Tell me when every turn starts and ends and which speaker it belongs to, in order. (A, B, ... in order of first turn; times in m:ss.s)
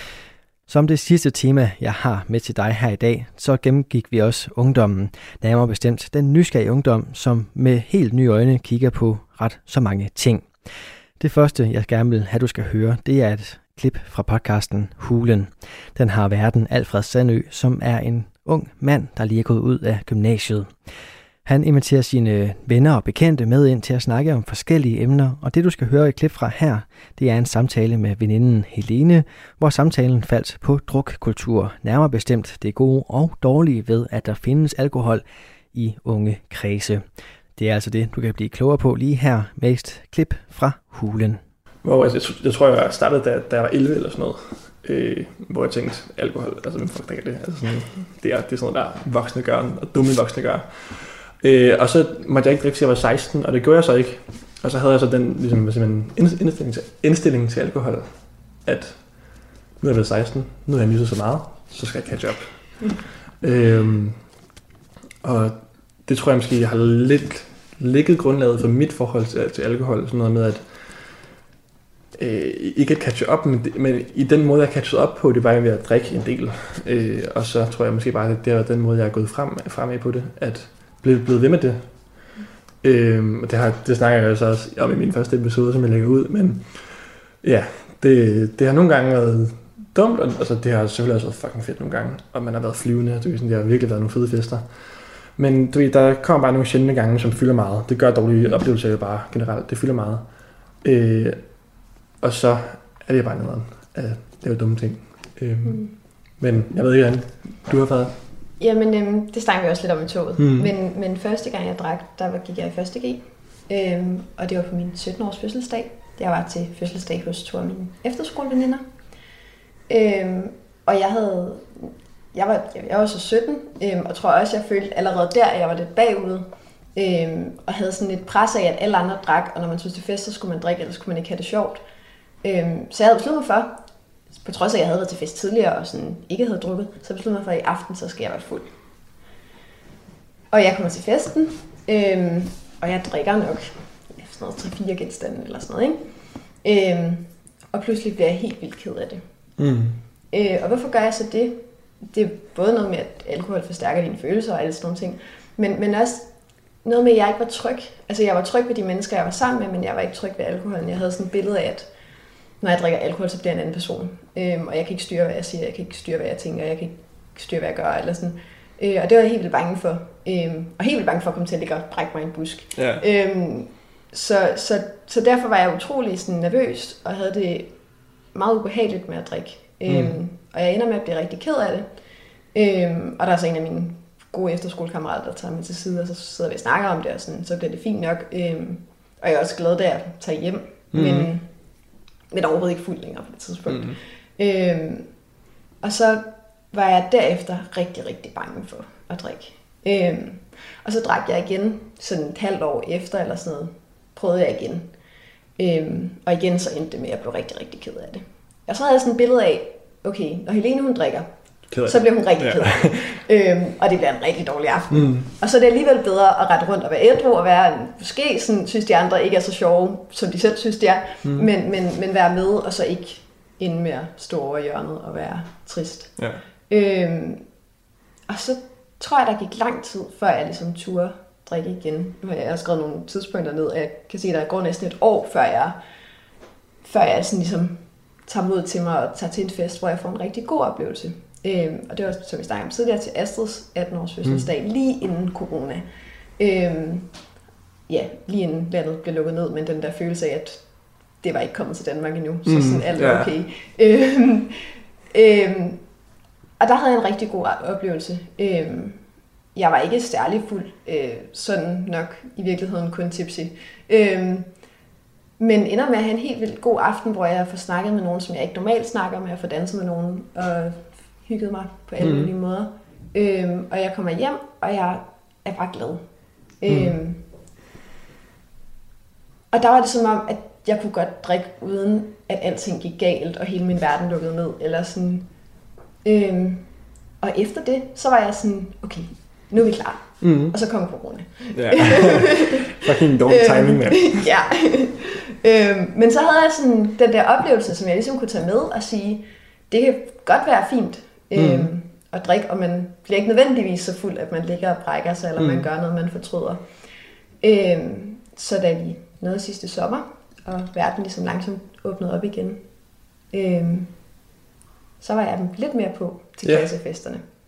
0:00.7-0:10.5 A
0:11.2-0:20.7 A
0:21.4-0:37.0 A
0:37.6-0:41.4 A
0:41.8-1:02.9 B
1:03.4-1:04.4 B
1:05.2-1:11.1 B
1:12.2-1:22.3 B
1:22.8-1:48.2 B
1:45.6-1:46.0 C
1:48.6-1:58.8 C
1:50.4-1:50.7 B
1:59.9-2:11.8 C
2:12.4-2:13.8 C
2:14.4-2:18.7 C
2:20.5-2:26.0 C
2:26.6-2:29.2 C
2:29.6-2:30.0 B
2:30.3-2:41.9 C
2:42.6-3:01.9 C
2:52.7-2:53.0 B
2:59.9-3:00.2 B
3:02.5-3:11.5 C
3:10.9-3:11.3 B
3:12.3-3:15.1 C
3:13.7-3:14.0 B
3:15.8-3:25.0 C
3:25.6-3:31.3 C
3:31.7-3:33.1 B
3:31.8-3:47.5 C
3:34.9-3:35.3 B
3:41.2-3:41.5 B
3:46.2-3:46.4 B
3:48.3-3:55.8 C
3:56.8-4:07.3 C
4:04.2-4:04.5 B
4:07.9-4:15.9 C
4:12.4-4:13.3 B
4:16.6-4:24.6 C
4:25.4-4:36.0 C
4:32.0-4:32.3 B
4:36.6-4:37.2 C
4:36.7-4:36.9 B
4:39.5-4:45.3 C
4:46.0-4:52.7 C
4:50.2-4:50.6 B
4:51.5-4:54.2 B
4:53.2-5:06.7 C
5:01.3-5:01.7 B
5:05.4-5:05.7 B
5:07.4-5:12.6 C
5:13.3-5:14.0 C
5:15.0-5:17.3 C
5:16.4-5:16.8 B